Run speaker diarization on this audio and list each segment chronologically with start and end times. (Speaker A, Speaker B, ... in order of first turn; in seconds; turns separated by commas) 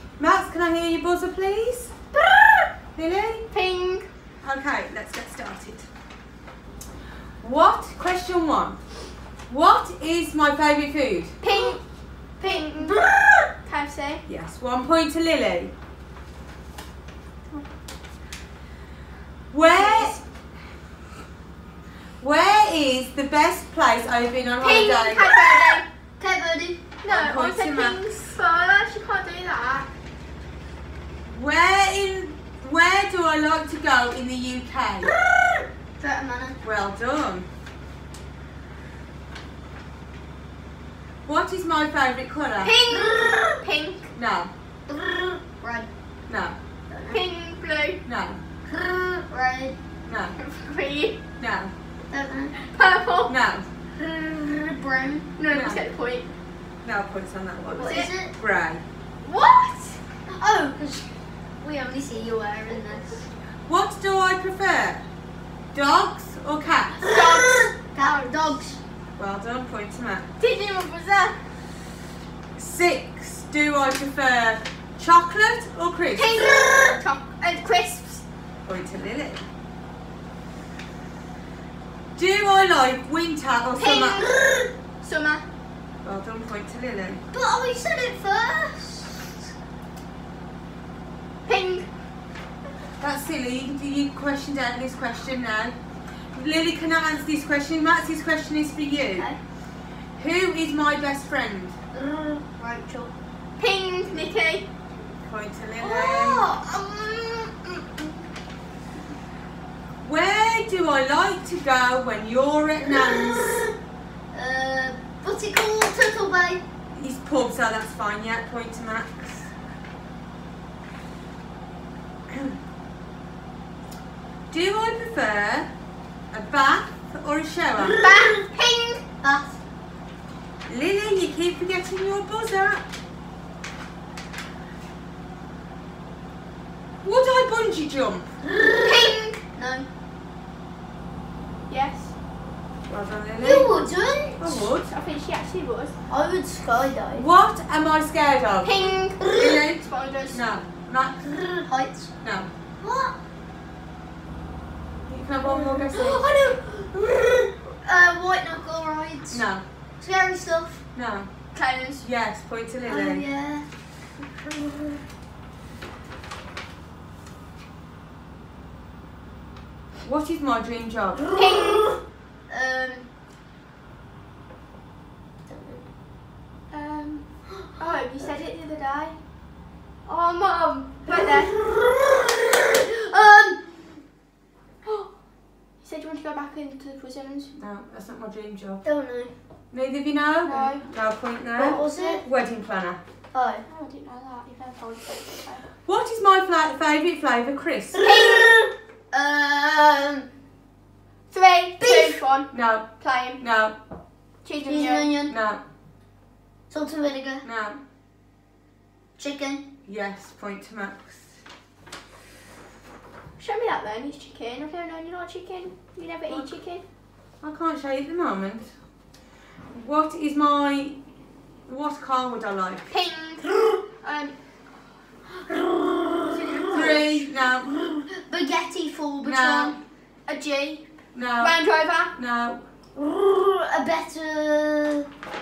Speaker A: 0.2-1.9, Speaker A: 3.0-3.5, Speaker B: 3.5-4.1, Speaker A: 4.4-5.9, Speaker A: 7.4-8.8, Speaker A: 9.5-11.4, Speaker B: 11.4-11.8, Speaker B: 12.4-13.0, Speaker C: 12.9-13.5, Speaker B: 13.6-14.2, Speaker A: 14.3-15.7, Speaker A: 19.5-20.2, Speaker B: 19.6-20.2, Speaker A: 22.2-25.2, Speaker B: 24.6-25.9, Speaker C: 25.2-26.9, Speaker B: 27.0-29.9, Speaker A: 27.1-28.1, Speaker A: 31.2-35.1, Speaker C: 35.3-36.6, Speaker A: 36.6-37.5, Speaker A: 41.2-42.8, Speaker B: 42.6-44.1, Speaker C: 43.0-43.6, Speaker A: 44.1-44.5, Speaker C: 44.9-45.9, Speaker A: 46.3-46.6, Speaker C: 46.9-47.2, Speaker B: 47.1-48.0, Speaker A: 48.0-48.4, Speaker C: 48.7-49.8, Speaker A: 50.0-50.4, Speaker B: 50.4-51.2, Speaker A: 51.4-51.7, Speaker C: 52.1-52.6, Speaker B: 52.6-53.3, Speaker A: 53.2-53.7, Speaker C: 54.0-55.3, Speaker B: 55.4-56.3, Speaker A: 55.5-55.8, Speaker A: 56.8-58.8, Speaker C: 57.7-58.3, Speaker B: 57.8-58.1, Speaker B: 59.2-60.0, Speaker C: 60.3-63.2, Speaker A: 63.7-65.1, Speaker A: 65.7-67.1, Speaker B: 67.0-68.2, Speaker C: 67.0-68.8, Speaker A: 69.2-70.3, Speaker B: 70.4-71.4, Speaker A: 72.6-76.5, Speaker B: 76.2-78.2, Speaker A: 78.7-79.5, Speaker A: 82.2-84.3, Speaker B: 83.8-84.5, Speaker B: 85.0-85.5, Speaker A: 86.0-87.2, Speaker C: 87.3-89.5, Speaker B: 91.5-91.9, Speaker A: 93.0-95.8, Speaker A: 96.3-99.3, Speaker A: 100.2-101.8, Speaker C: 102.0-103.1, Speaker B: 103.6-104.7, Speaker A: 105.2-106.5, Speaker C: 105.8-108.3, Speaker A: 110.0-113.7, Speaker C: 112.9-113.7, Speaker C: 114.3-116.6, Speaker A: 116.9-119.5, Speaker A: 124.5-125.7, Speaker A: 126.3-128.0, Speaker B: 128.0-129.0, Speaker C: 129.2-129.6, Speaker A: 130.7-132.8, Speaker A: 137.0-138.3, Speaker B: 138.8-139.4, Speaker C: 139.5-139.9, Speaker B: 141.7-142.2, Speaker A: 142.9-143.8, Speaker C: 143.4-144.6, Speaker A: 144.4-144.9, Speaker B: 144.8-145.9, Speaker C: 146.1-147.2, Speaker A: 147.1-151.5, Speaker B: 148.6-150.5, Speaker C: 151.5-152.1, Speaker A: 152.2-152.5, Speaker C: 152.8-153.2, Speaker A: 155.1-156.3, Speaker C: 155.4-159.4, Speaker A: 159.3-159.6, Speaker C: 160.0-160.8, Speaker A: 160.9-161.3, Speaker B: 161.5-162.1, Speaker A: 162.0-163.2, Speaker C: 162.8-163.7, Speaker C: 164.4-164.9, Speaker A: 170.0-171.3, Speaker B: 171.3-171.9, Speaker C: 172.5-173.1, Speaker C: 175.5-175.8, Speaker B: 176.7-177.2, Speaker C: 177.8-178.4, Speaker B: 177.8-179.2, Speaker B: 180.1-181.6, Speaker C: 181.1-183.6, Speaker B: 185.8-187.5, Speaker A: 187.5-188.8, Speaker C: 188.8-189.3, Speaker A: 189.7-193.0, Speaker B: 190.5-190.9, Speaker C: 191.6-192.2, Speaker B: 191.7-192.2, Speaker C: 193.3-193.7, Speaker B: 193.7-195.7, Speaker A: 195.9-198.0, Speaker B: 198.0-198.6, Speaker C: 198.2-198.6, Speaker C: 199.1-200.3, Speaker B: 201.3-203.4, Speaker C: 201.8-202.2, Speaker A: 202.5-203.8, Speaker B: 204.4-205.1, Speaker C: 204.7-205.3, Speaker A: 205.3-205.6, Speaker C: 206.7-207.5, Speaker A: 207.4-207.8, Speaker C: 209.2-209.7, Speaker A: 209.8-211.3, Speaker B: 213.4-216.8, Speaker A: 217.4-218.8, Speaker A: 219.7-221.0, Speaker A: 221.7-222.9, Speaker B: 222.9-224.3, Speaker C: 225.5-226.2, Speaker B: 226.3-227.2, Speaker A: 226.7-228.0, Speaker C: 228.2-229.8, Speaker A: 229.2-229.8, Speaker B: 230.3-232.1, Speaker A: 231.1-231.6, Speaker A: 232.2-232.6, Speaker C: 233.0-235.1